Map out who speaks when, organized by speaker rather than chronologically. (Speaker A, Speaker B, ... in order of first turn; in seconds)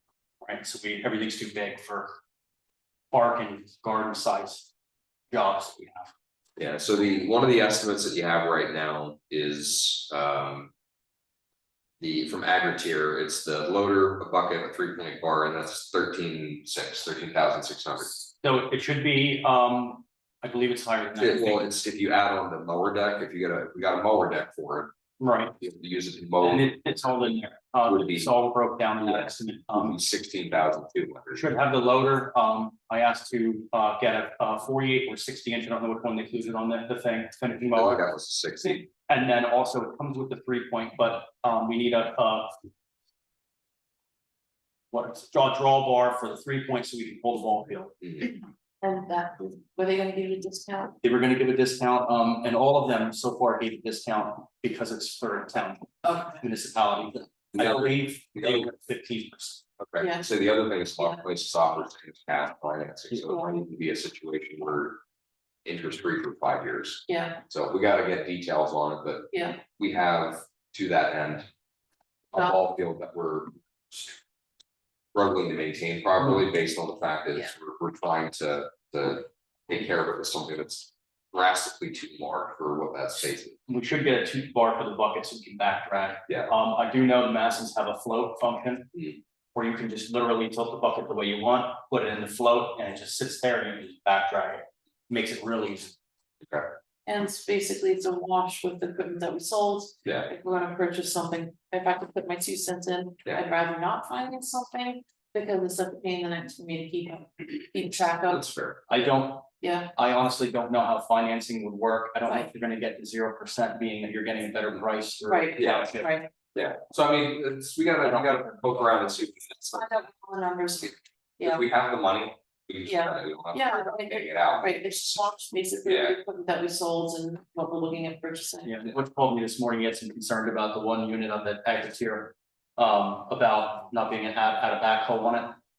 Speaker A: 0.4-2.2, 3.1-4.7, 5.3-6.1, 18.4-21.7, 25.2-25.5, 26.4-30.0, 31.3-38.1, 38.6-42.6, 44.9-48.0, 51.0-59.6, 83.7-88.9, 89.5-96.0, 108.9-116.1, 118.0-118.9, 128.7-135.6
Speaker B: 6.6-10.7, 12.0-18.1, 21.2-24.9, 25.6-26.8, 27.9-28.3, 29.1-31.4, 37.8-38.9, 57.5-58.7, 59.8-65.0, 65.7-71.5, 72.3-74.2, 75.1-83.6, 96.4-96.7, 100.0-100.3, 108.3-108.8, 115.6-115.9, 116.5-120.0, 121.4-125.3, 125.8-126.2
Speaker C: 48.8-51.0, 56.0-56.4, 60.0-60.3, 67.1-67.4, 69.3-69.6, 97.1-108.4, 109.6-109.9, 115.3-116.3, 119.7-121.6, 122.9-128.7